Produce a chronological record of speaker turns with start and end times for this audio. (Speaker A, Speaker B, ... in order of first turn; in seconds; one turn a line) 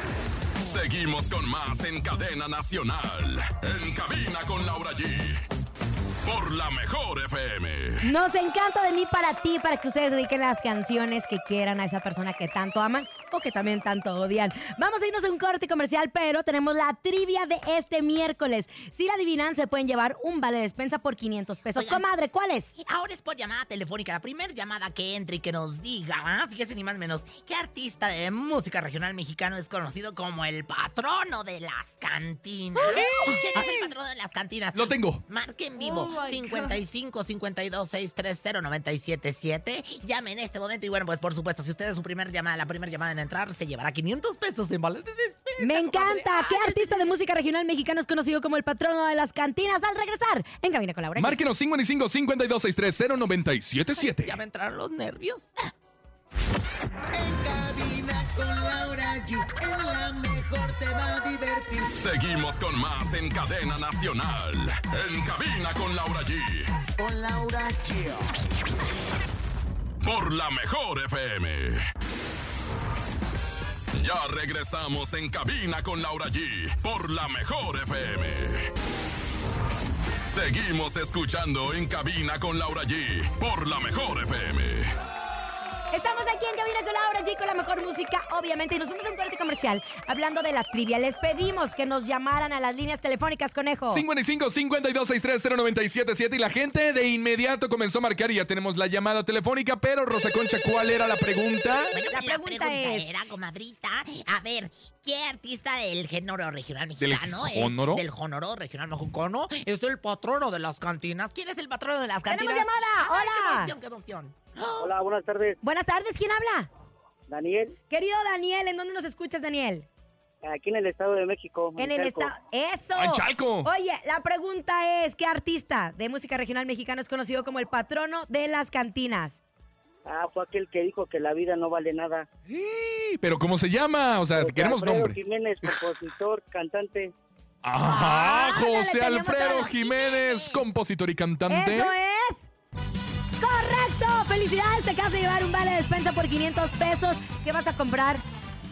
Speaker A: 0.6-5.4
Speaker A: 6.2-8.1
Speaker B: 8.0-22.7
Speaker C: 21.7-22.0
Speaker C: 22.8-47.1
Speaker B: 32.8-33.3
Speaker D: 32.9-33.8
Speaker D: 34.7-35.2
Speaker B: 45.6-51.4
Speaker D: 51.1-54.4
Speaker C: 54.1-55.7
Speaker E: 57.1-61.9
Speaker A: 61.9-66.7
Speaker E: 67.0-68.3
Speaker A: 70.0-71.8
Speaker A: 73.9-78.7
Speaker A: 80.3-84.9
Speaker B: 85.9-94.0
Speaker D: 93.9-101.9
Speaker C: 101.9-114.9
Speaker B: 102.1-103.0
Speaker D: 107.0-108.0
Speaker B: 112.3-113.7
Speaker F: 114.8-115.6
Speaker B: 115.6-116.7
Speaker F: 117.3-117.7
Speaker B: 117.9-119.9
Speaker F: 120.4-122.3
Speaker B: 121.8-129.4
Speaker D: 122.9-123.7
Speaker F: 130.1-132.3
Speaker D: 132.5-135.7
Speaker F: 134.4-137.1
Speaker D: 137.6-141.9
Speaker B: 137.8-139.7
Speaker C: 139.3-140.7
Speaker B: 141.5-142.5
Speaker B: 143.4-148.2